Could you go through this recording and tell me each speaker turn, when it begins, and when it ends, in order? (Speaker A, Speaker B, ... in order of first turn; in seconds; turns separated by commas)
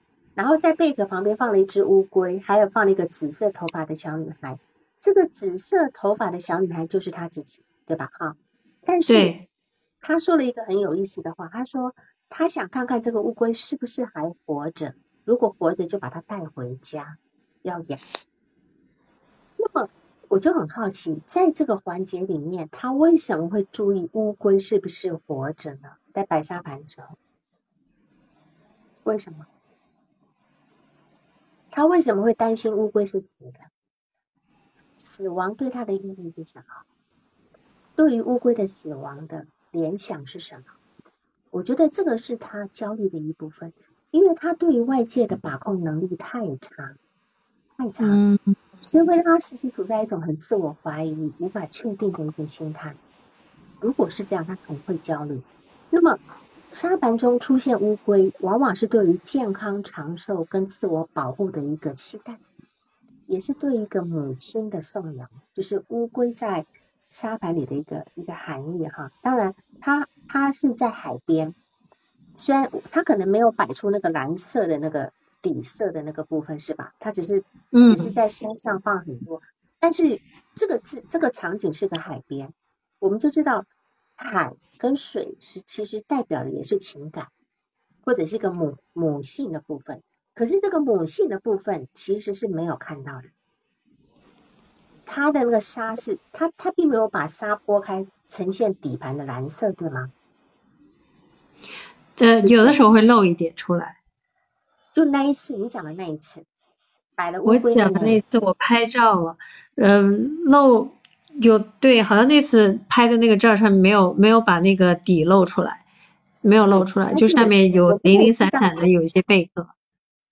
Speaker A: 0.3-9.3, Speaker B: 9.1-9.4, Speaker A: 10.0-18.0, Speaker A: 19.6-27.2, Speaker A: 29.0-29.5, Speaker A: 31.7-33.7, Speaker A: 35.0-36.8, Speaker A: 38.0-40.7, Speaker A: 41.5-47.0, Speaker A: 47.8-48.2, Speaker B: 48.0-48.5, Speaker A: 48.8-53.0, Speaker A: 53.8-56.2, Speaker A: 56.7-62.4, Speaker A: 63.3-71.5, Speaker A: 72.4-87.3, Speaker B: 77.7-78.1, Speaker A: 88.0-93.3, Speaker A: 95.0-100.1, Speaker B: 102.2-104.0, Speaker A: 102.4-103.0, Speaker A: 104.9-106.5, Speaker A: 107.2-108.2, Speaker B: 107.4-115.8, Speaker B: 116.4-119.7, Speaker A: 116.7-118.7